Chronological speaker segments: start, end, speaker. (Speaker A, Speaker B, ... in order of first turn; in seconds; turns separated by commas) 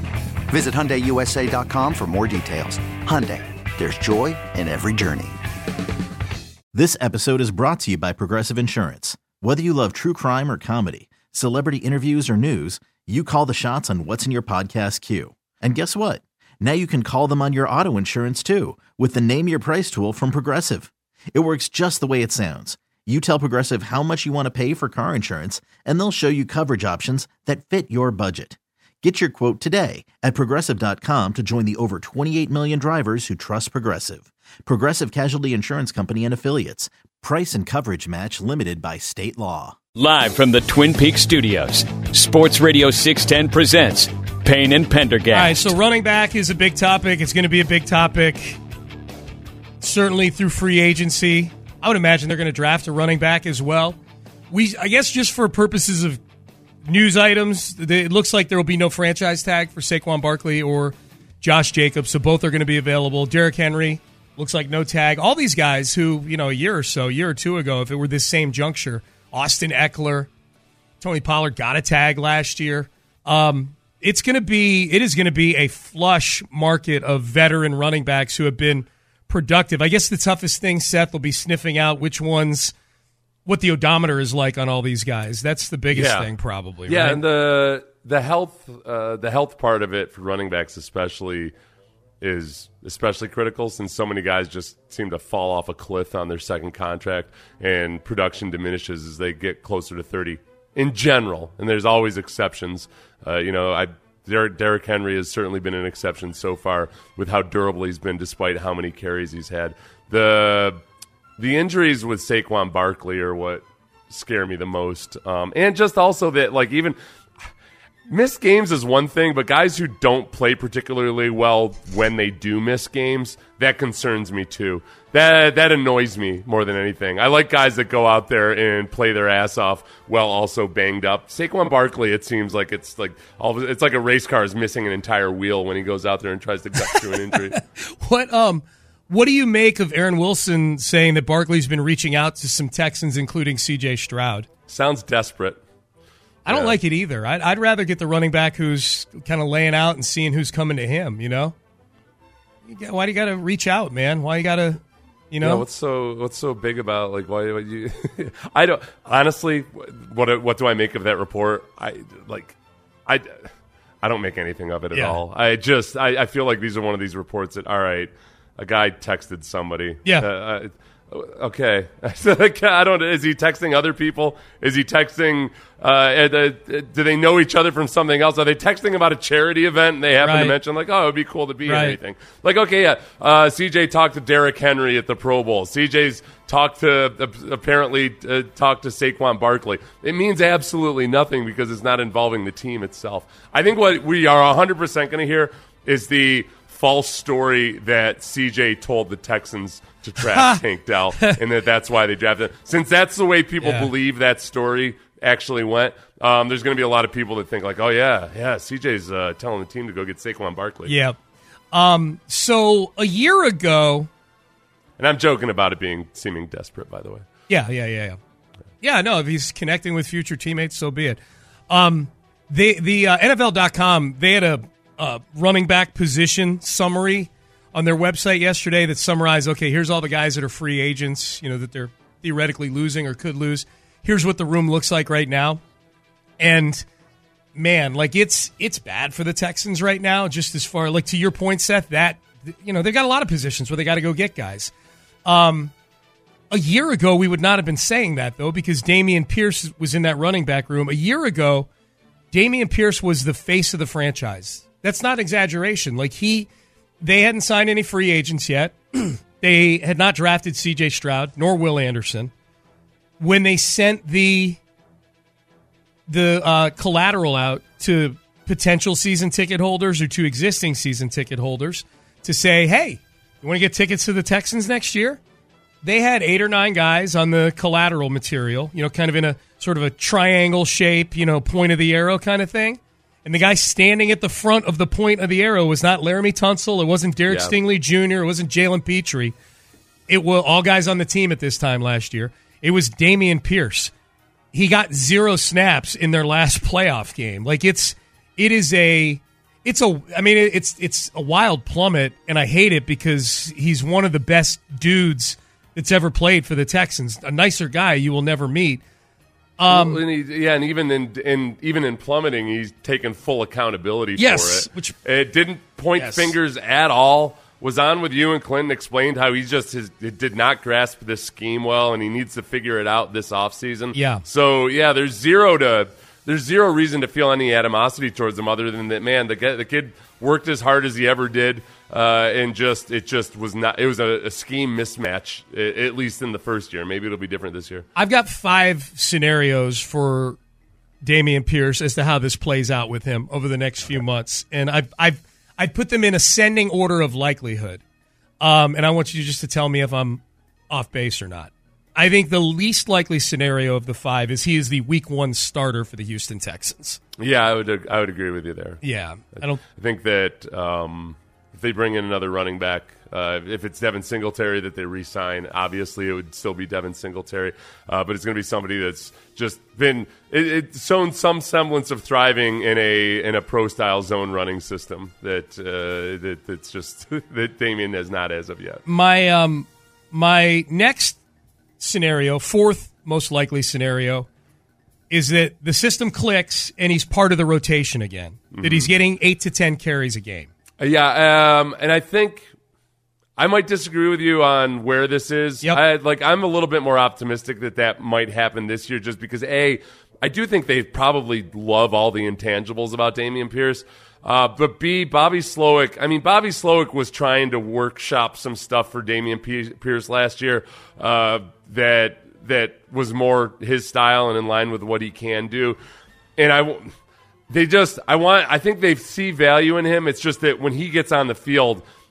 Speaker A: 0.5-5.4, Speaker B: 6.7-39.8, Speaker C: 40.0-45.8, Speaker D: 45.3-48.6, Speaker D: 49.8-54.0, Speaker D: 54.5-56.2, Speaker D: 56.8-70.3, Speaker D: 71.0-82.7, Speaker D: 83.5-87.2, Speaker E: 85.9-86.3, Speaker E: 86.9-91.5, Speaker E: 92.2-110.8, Speaker E: 111.4-117.0, Speaker E: 118.1-137.6, Speaker D: 136.8-144.5, Speaker E: 144.7-145.6, Speaker D: 146.4-151.5, Speaker E: 146.5-146.8, Speaker D: 152.7-155.7, Speaker E: 155.4-162.6, Speaker E: 163.1-163.4, Speaker E: 164.0-210.9, Speaker D: 164.9-165.2, Speaker D: 180.2-180.6, Speaker D: 181.7-182.0, Speaker D: 200.2-200.6, Speaker D: 203.6-203.9, Speaker D: 210.8-211.2, Speaker D: 211.7-214.1, Speaker E: 215.0-217.2, Speaker D: 217.5-218.2, Speaker D: 218.8-235.6, Speaker D: 236.4-236.8, Speaker D: 237.5-244.7, Speaker D: 245.2-245.7, Speaker D: 246.5-251.7, Speaker D: 252.3-256.5, Speaker D: 257.0-262.3, Speaker D: 263.2-264.6, Speaker D: 266.1-275.2, Speaker D: 275.8-289.3, Speaker E: 287.3-287.6, Speaker D: 290.1-293.9, Speaker D: 294.5-308.8, Speaker D: 309.6-310.0, Speaker E: 309.7-337.9, Speaker D: 314.2-315.0, Speaker D: 315.9-316.3, Speaker D: 323.9-324.2, Speaker D: 337.9-340.4, Speaker D: 341.0-347.8, Speaker D: 348.4-357.0, Speaker E: 357.2-358.8, Speaker D: 358.8-359.6, Speaker E: 359.4-378.8, Speaker D: 378.8-381.2, Speaker D: 381.8-384.3, Speaker D: 385.1-390.5, Speaker E: 388.5-388.9, Speaker E: 390.8-392.5, Speaker E: 393.4-415.8, Speaker E: 416.4-416.9, Speaker E: 417.5-421.8